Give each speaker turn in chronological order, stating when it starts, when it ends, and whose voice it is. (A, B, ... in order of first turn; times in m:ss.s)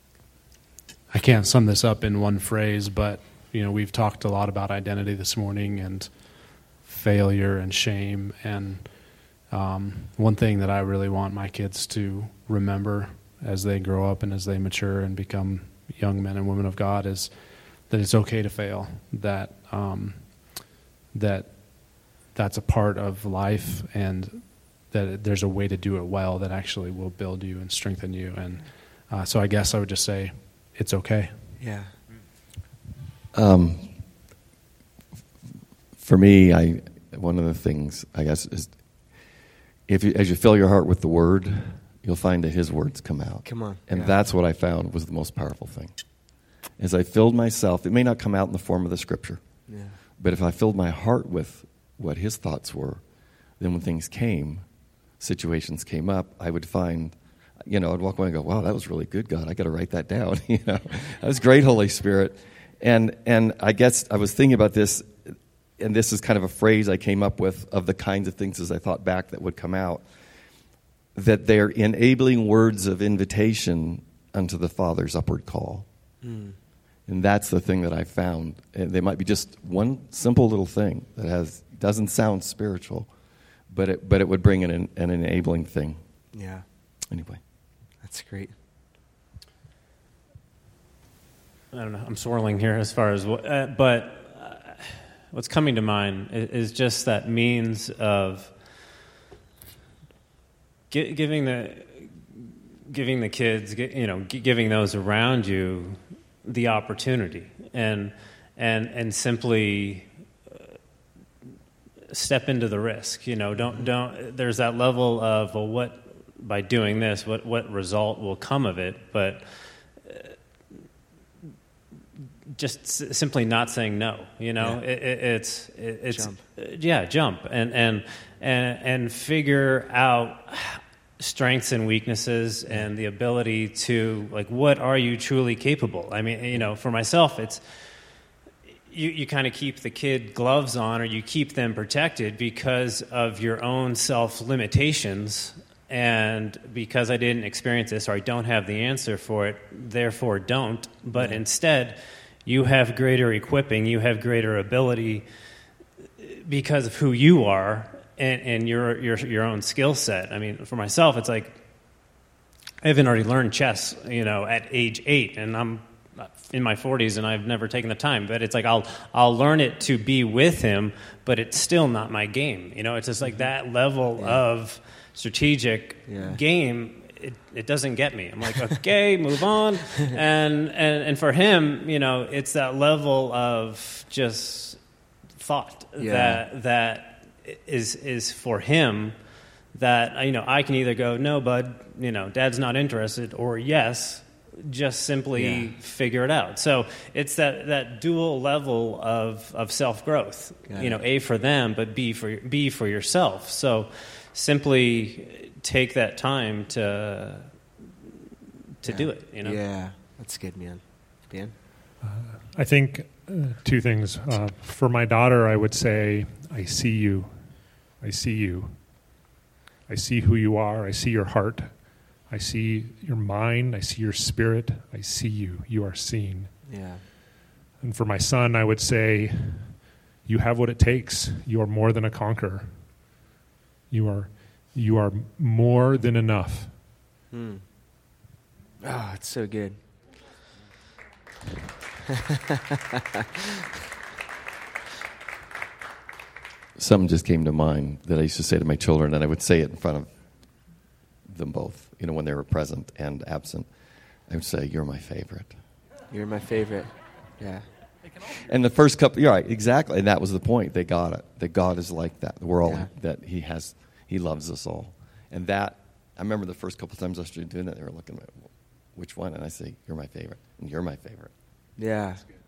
0:01.1-0:31.5 A
0:31.6-0:31.9 B
0:33.3-0:33.9 C
0:36.0-0:38.7 C
0:39.9-0:45.9 C
0:43.4-0:44.1 B
0:46.8-0:49.4 C
0:49.7-0:50.0 B
0:50.2-0:53.0 C
0:53.6-0:54.6 C
0:55.2-1:10.0 C
1:11.2-1:15.9 C
1:16.2-1:16.6 B
1:17.1-1:23.1 C
1:23.7-1:26.0 C
1:26.3-1:26.6 B
1:27.1-1:27.4 C
1:28.0-1:28.5 B
1:31.7-1:38.5 D
1:40.9-1:50.1 D
1:52.1-1:59.4 D
2:00.1-2:00.3 D
2:02.5-2:17.6 D
2:06.1-2:06.4 B
2:18.9-2:35.2 D
2:31.2-2:31.4 B
2:36.2-2:41.6 D
2:42.8-3:04.8 D
2:56.1-2:56.4 B
3:05.4-3:09.2 D
3:06.0-3:06.4 B
3:09.7-3:27.5 D
3:15.4-3:15.7 B
3:20.7-3:21.0 B
3:28.8-3:29.6 D
3:28.8-3:31.5 B
3:32.0-3:37.4 E
3:38.0-3:38.8 E
3:39.9-3:46.5 E
3:46.7-3:47.0 B
3:47.8-3:52.8 E
3:53.9-3:56.7 E
3:57.3-3:57.6 B
3:58.8-3:59.8 B
4:03.0-4:03.4 B
4:06.8-4:10.1 C
4:11.3-4:13.7 C
4:14.3-4:15.5 C
4:16.1-4:17.7 B
4:18.4-4:31.3 C
4:31.8-4:32.2 B